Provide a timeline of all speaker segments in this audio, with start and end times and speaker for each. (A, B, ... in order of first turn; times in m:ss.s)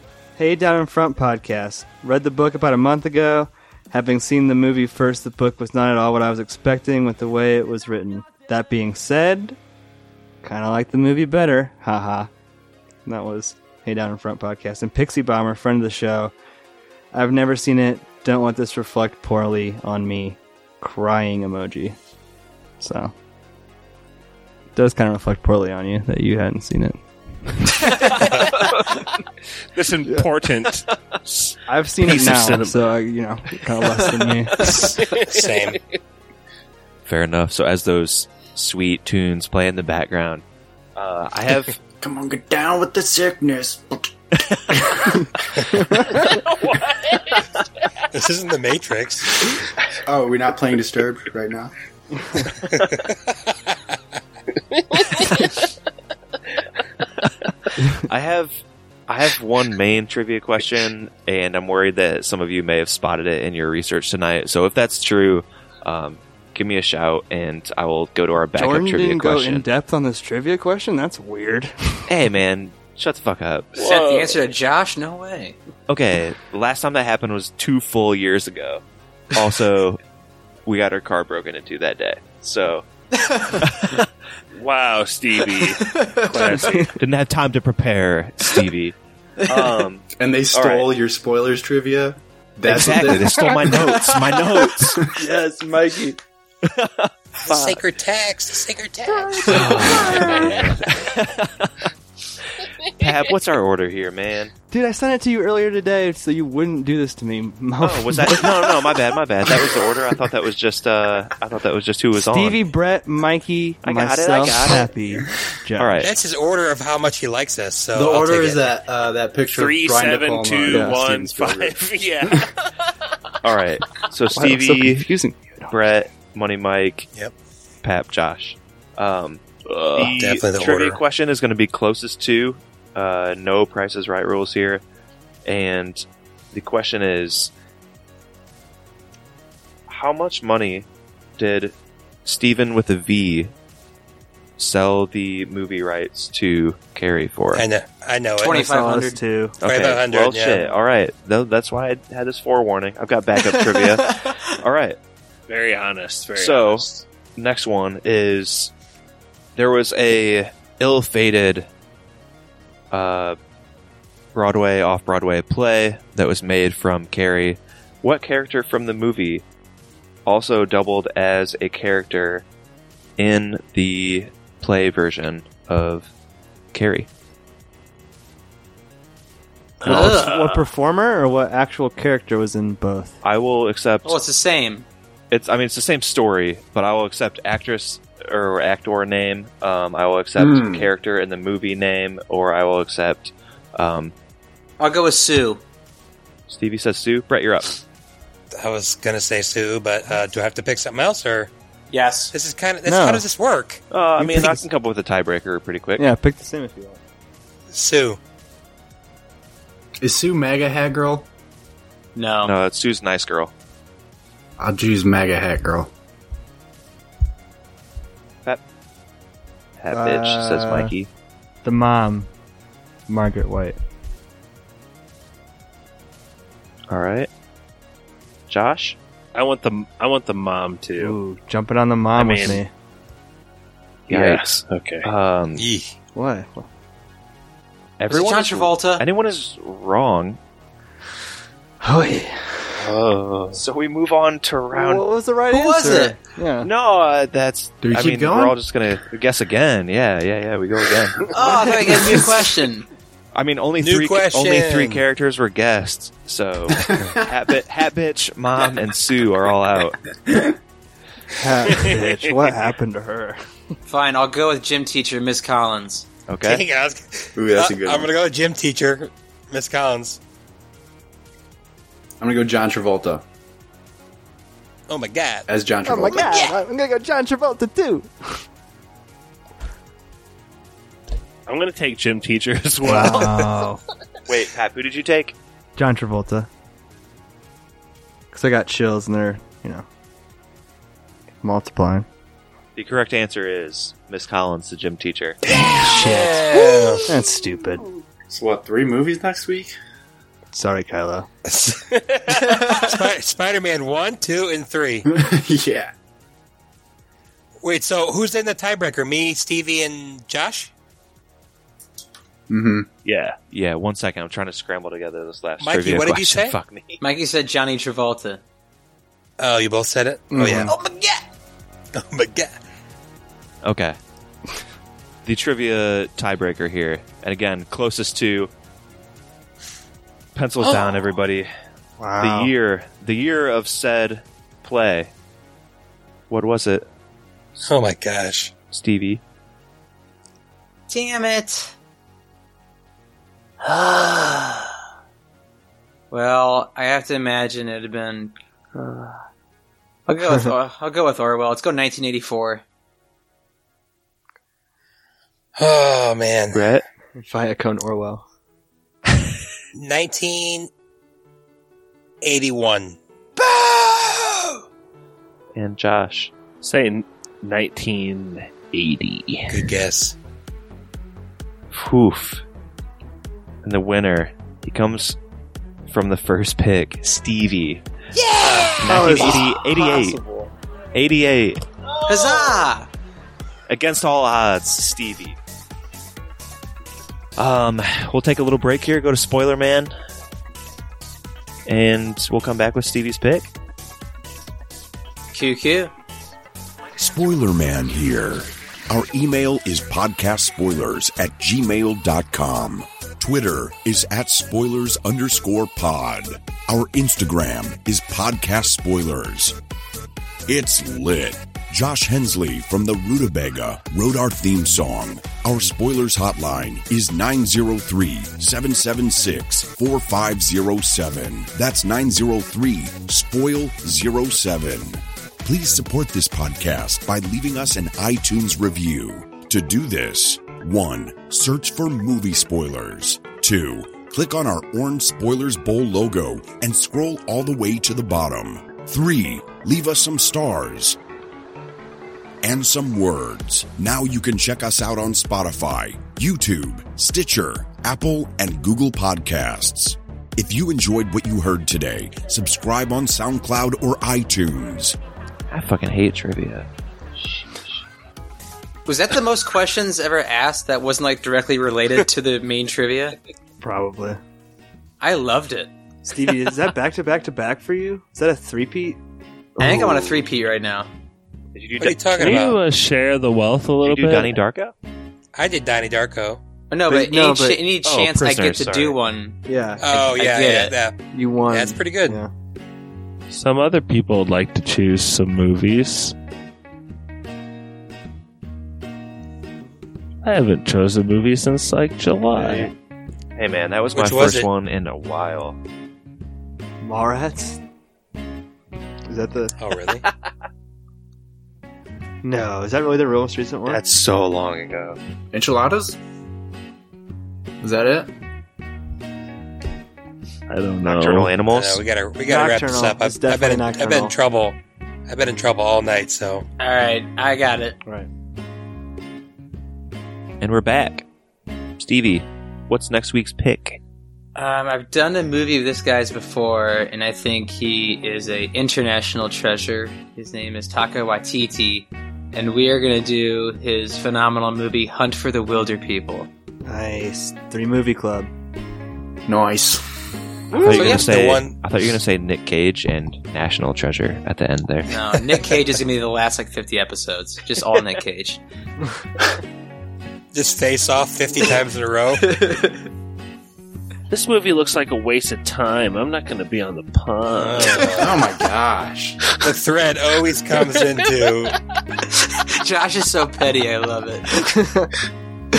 0:00.4-0:09.6 A
0:10.4-0:12.3 A
0:13.0-0:16.3 A
0:17.1-0:22.0 A
0:22.8-0:23.1 A
0:24.8-0:28.2 A
0:28.2-0:28.6 B
0:29.7-0:32.8 C
0:31.7-0:34.8 A
0:34.6-0:35.4 C
0:34.6-0:35.8 B
0:37.0-0:40.4 D
0:41.0-0:41.8 D
0:42.0-0:44.0 E
0:48.1-0:49.5 B
0:50.0-0:51.7 E
0:52.7-0:53.2 B
0:58.0-1:09.6 D
1:08.6-1:12.0 A
1:12.1-1:13.7 D
1:13.8-1:14.4 C
1:13.8-1:15.6 F
1:15.9-1:20.0 D
1:20.6-1:22.8 D
1:23.6-1:24.0 D
1:24.5-1:27.0 C
1:26.0-1:26.5 E
1:26.9-1:29.0 D
1:29.5-1:30.9 D
1:30.2-1:36.2 E
1:32.7-1:35.0 D
1:35.2-1:35.5 A
1:36.7-1:37.8 D
1:37.4-1:40.7 B
1:39.4-1:40.2 E
1:39.4-1:41.7 D
1:42.9-1:44.5 D
1:44.7-1:49.0 A
1:47.8-1:52.6 D
1:52.2-1:56.1 A
1:53.8-1:54.9 D
1:55.8-1:56.1 D
1:56.0-1:58.7 B
1:57.9-2:02.3 E
1:59.5-2:02.5 C
2:00.7-2:01.0 A
2:03.4-2:05.1 D
2:04.3-2:05.8 A
2:05.7-2:07.1 D
2:07.8-2:09.4 D
2:09.6-2:10.1 C
2:10.0-2:14.8 D
2:10.2-2:11.0 B
2:15.4-2:17.5 D
2:19.9-2:20.8 D
2:21.4-2:21.7 D
2:22.2-2:23.5 D
2:24.6-2:27.6 D
2:27.5-2:28.7 B
2:28.4-2:29.2 F
2:28.5-2:29.6 A
2:29.6-2:35.0 D
2:29.6-2:30.7 B
2:35.5-2:37.0 C
2:36.4-2:38.7 D
2:39.6-2:41.7 D
2:42.9-2:43.4 D
2:44.3-2:49.4 D
2:50.2-2:52.4 D
2:53.2-2:56.1 D
2:56.7-2:57.1 D
2:59.8-3:00.6 C
2:59.8-3:03.1 A
2:59.9-3:00.4 F
3:03.2-3:04.2 D
3:04.0-3:04.8 F
3:05.3-3:14.1 D
3:10.4-3:10.9 E
3:14.8-3:15.6 F
3:16.5-3:17.8 D
3:18.5-3:21.5 B
3:21.9-3:22.3 F
3:22.3-3:23.8 B
3:22.8-3:23.3 A
3:23.9-3:26.1 D
3:24.2-3:24.6 A
3:26.0-3:27.0 A
3:27.7-3:28.2 B
3:30.0-3:31.3 E
3:32.2-3:32.5 F
3:32.4-3:33.5 D
3:34.6-3:35.9 E
3:39.8-3:41.1 D
3:39.9-3:40.9 A
3:41.6-3:42.3 A
3:43.1-3:43.8 A
3:46.9-3:47.3 D
3:48.5-3:49.0 D
3:49.3-3:51.2 C
3:51.0-3:52.7 A
3:52.2-3:52.6 C
3:54.1-3:55.1 C
3:54.1-3:54.5 D
3:55.0-3:55.6 D
3:55.6-3:55.9 B
3:56.1-3:56.7 A
3:58.0-4:00.4 D
3:58.1-3:59.0 F
4:01.8-4:02.8 A
4:02.8-4:03.6 C
4:03.5-4:05.0 D
4:04.7-4:06.7 A
4:05.5-4:06.2 F
4:06.6-4:11.6 D
4:07.8-4:08.6 E
4:11.3-4:12.8 F
4:11.9-4:12.2 E
4:13.3-4:20.0 D
4:13.8-4:15.0 B
4:16.7-4:17.2 E
4:21.4-4:23.4 A
4:23.8-4:26.1 F
4:26.3-4:26.6 D
4:26.4-4:30.2 B
4:27.4-4:28.1 E
4:32.2-4:33.2 E
4:34.9-4:35.4 B
4:35.5-4:36.4 E
4:35.8-4:38.4 A
4:41.5-4:43.6 C
4:42.8-4:43.8 A
4:44.3-4:45.4 D
4:45.8-4:46.5 A
4:48.3-4:49.8 A
4:51.4-4:52.0 A
4:52.8-4:55.4 D
4:55.5-4:56.2 E
4:55.8-4:56.4 A
4:55.8-4:57.1 B
4:57.0-4:57.8 A
4:58.3-4:59.7 E
5:00.5-5:01.3 A
5:01.4-5:05.0 B
5:02.3-5:02.9 E
5:05.1-5:05.9 E
5:07.6-5:10.7 B
5:12.5-5:12.9 E
5:13.0-5:13.4 C
5:13.5-5:17.0 D
5:15.6-5:16.6 B
5:17.0-5:18.4 F
5:19.4-5:20.7 B
5:20.3-5:20.7 E
5:22.0-5:22.5 B
5:23.6-5:24.0 D
5:25.2-5:28.5 D
5:30.3-5:31.5 D
5:32.0-5:32.5 A
5:32.2-5:35.1 D
5:36.3-5:36.8 D
5:37.6-5:38.5 B
5:38.7-5:39.2 D
5:40.9-5:41.7 F
5:43.8-5:44.4 F
5:46.1-5:48.3 F
5:50.1-5:52.6 F
5:50.2-5:50.5 A
5:55.6-5:56.6 B
5:56.5-5:56.8 D
5:57.2-5:58.2 A
5:59.7-6:00.7 B
6:02.2-6:03.0 B
6:05.5-6:06.3 D
6:06.6-6:09.7 C
6:09.5-6:10.2 B
6:11.7-6:12.4 D
6:13.6-6:15.2 D
6:15.8-6:17.8 D
6:18.4-6:18.8 B
6:18.7-6:20.2 D
6:18.8-6:19.6 A
6:20.9-6:21.6 D
6:22.0-6:22.9 F
6:23.7-6:25.4 D
6:27.4-6:29.9 D
6:31.6-6:33.5 D
6:35.3-6:35.9 F
6:37.0-6:49.6 G
6:50.5-7:21.0 G
7:22.4-7:35.0 G
7:35.5-7:36.7 D
7:37.2-7:37.7 D
7:38.8-7:43.2 F
7:43.6-7:44.2 A
7:45.0-7:45.7 F
7:46.0-7:49.0 A
7:49.6-7:50.1 A
7:49.6-7:50.9 F
7:51.5-7:52.5 D
7:51.8-7:52.6 B
7:52.2-7:54.4 C
7:53.8-7:54.7 D
7:55.4-7:56.4 B
7:56.7-7:59.4 F
7:56.9-7:57.6 A
7:57.8-7:59.0 D
7:59.4-7:59.8 A
7:59.8-8:02.2 B
7:59.9-8:00.8 F
8:01.1-8:02.3 A
8:03.3-8:06.1 C
8:10.2-8:12.7 C
8:12.3-8:12.7 A
8:13.4-8:15.6 D
8:13.9-8:14.5 B
8:16.8-8:17.6 A
8:19.1-8:19.5 A
8:19.6-8:20.0 B
8:22.2-8:23.8 A
8:23.6-8:25.0 D
8:25.3-8:26.0 E
8:27.6-8:28.1 E
8:30.5-8:31.3 C
8:30.8-8:31.8 D
8:31.5-8:36.4 B
8:32.2-8:34.1 A
8:36.6-8:37.8 F
8:40.4-8:41.0 D
8:41.8-8:43.8 D
8:44.3-8:56.3 F
8:56.6-8:58.3 A
8:59.2-8:59.8 E
9:00.5-9:01.0 A
9:00.6-9:04.9 D
9:00.7-9:01.1 F
9:00.8-9:01.5 B
9:04.9-9:08.4 F
9:10.3-9:12.4 B
9:12.2-9:12.8 E
9:14.1-9:18.0 C
9:17.4-9:18.2 B
9:17.9-9:19.2 E
9:19.4-9:21.6 B
9:22.3-9:24.5 F
9:24.4-9:24.9 A